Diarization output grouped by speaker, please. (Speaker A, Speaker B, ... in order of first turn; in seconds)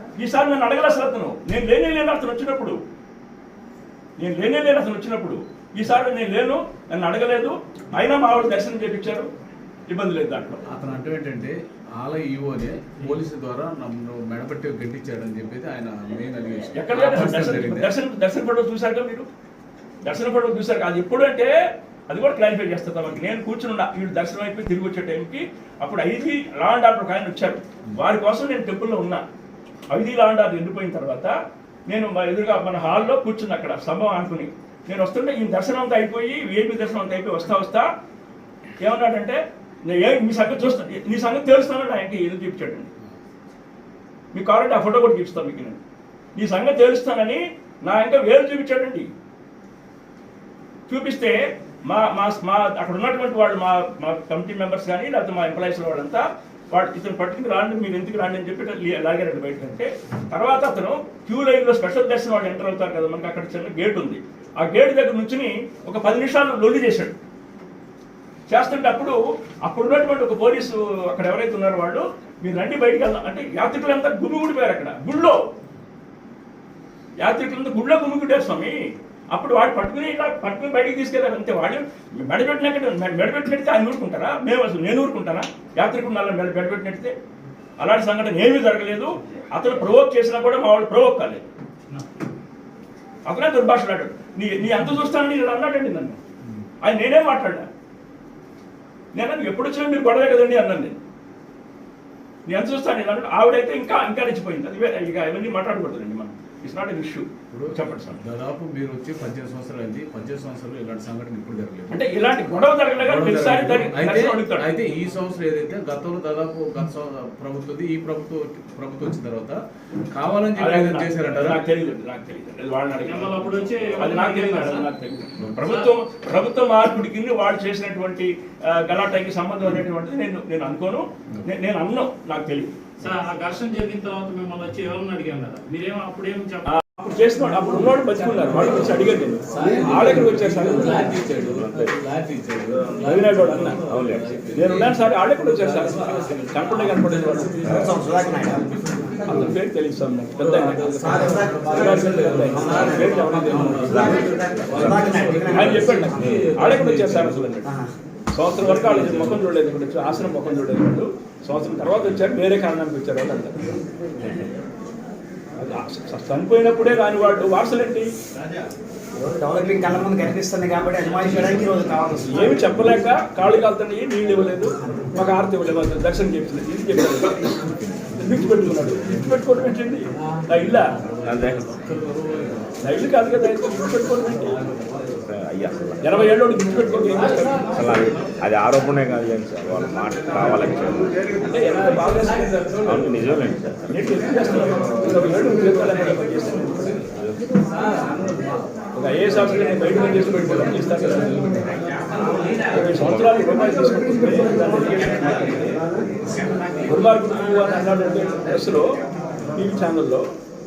Speaker A: 0.2-2.8, 4.2-9.3, 9.9-10.7, 16.7-19.2, 20.0-21.5, 22.1-29.2, 29.9-31.3, 31.9-37.9, 38.8-42.9, 44.3-45.8, 46.4-49.1, 50.9-67.1, 68.5-75.4, 77.2-78.8, 79.3-87.1, 87.8-91.4, 93.2-96.2, 96.8-97.7, 99.1-101.0, 102.5-108.2, 111.9-114.7, 120.5-132.9, 136.6-141.2, 142.8-143.8, 144.5-147.6, 149.3-154.2, 155.5-157.7, 158.3-163.8, 165.6-168.1, 172.3-177.6, 178.1-180.9, 182.8-184.6, 186.0-187.9, 191.4-192.6, 193.8-196.9, 198.9-201.6, 202.7-205.8, 206.8-208.9, 209.5-210.2
Speaker B: 10.7-17.9, 107.5-112.0, 113.0-119.6, 120.1-121.6, 138.4-149.5, 150.4-157.4, 158.6-159.4, 177.6-178.1, 180.9-182.8, 184.5-185.2, 191.6-193.3, 197.6-198.6, 200.1-201.3
Speaker C: 123.0-124.9, 125.6-125.9, 133.0-136.7
Speaker D: 141.4-142.0, 143.9-144.4, 147.6-147.9, 153.8-155.0, 156.1-156.5, 181.2-181.7, 185.2-186.1, 187.7-191.1, 192.8-194.0, 197.2-197.4
Speaker E: 147.6-148.7, 151.0-156.4, 157.6-157.9, 169.1-172.8